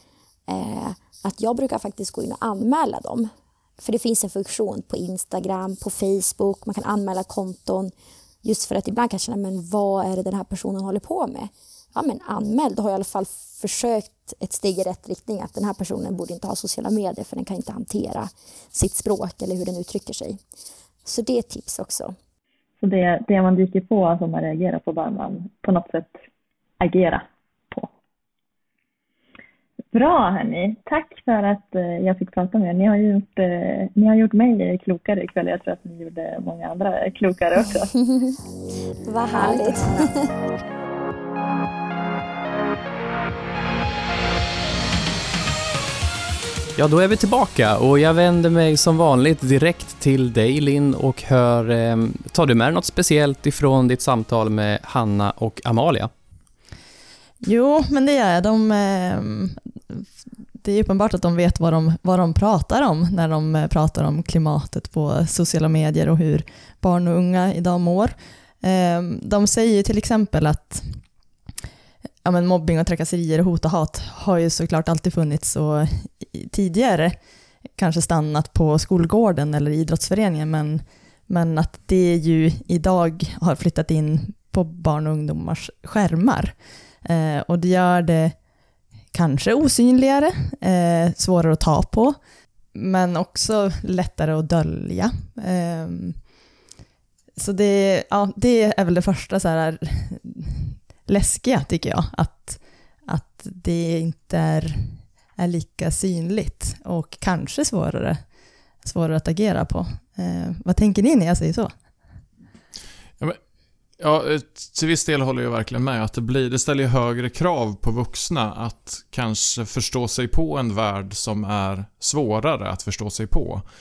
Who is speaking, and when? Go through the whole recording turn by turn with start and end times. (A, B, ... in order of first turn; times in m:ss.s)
0:00.5-0:07.9 A
0:08.4-0:20.4 A
0:21.0-0:22.2 A
0:22.8-0:26.2 B
0:26.8-0:27.9 B
0:29.9-0:37.9 B
0:38.0-0:38.3 A
0:39.0-0:40.1 A
0:46.8-0:56.1 C
0:57.4-1:11.0 D
1:12.2-1:17.2 D
1:17.8-1:28.4 D
1:29.1-1:32.2 D
1:32.7-1:36.2 D
1:37.4-1:48.2 D
1:48.8-1:51.7 D
1:54.0-2:03.6 E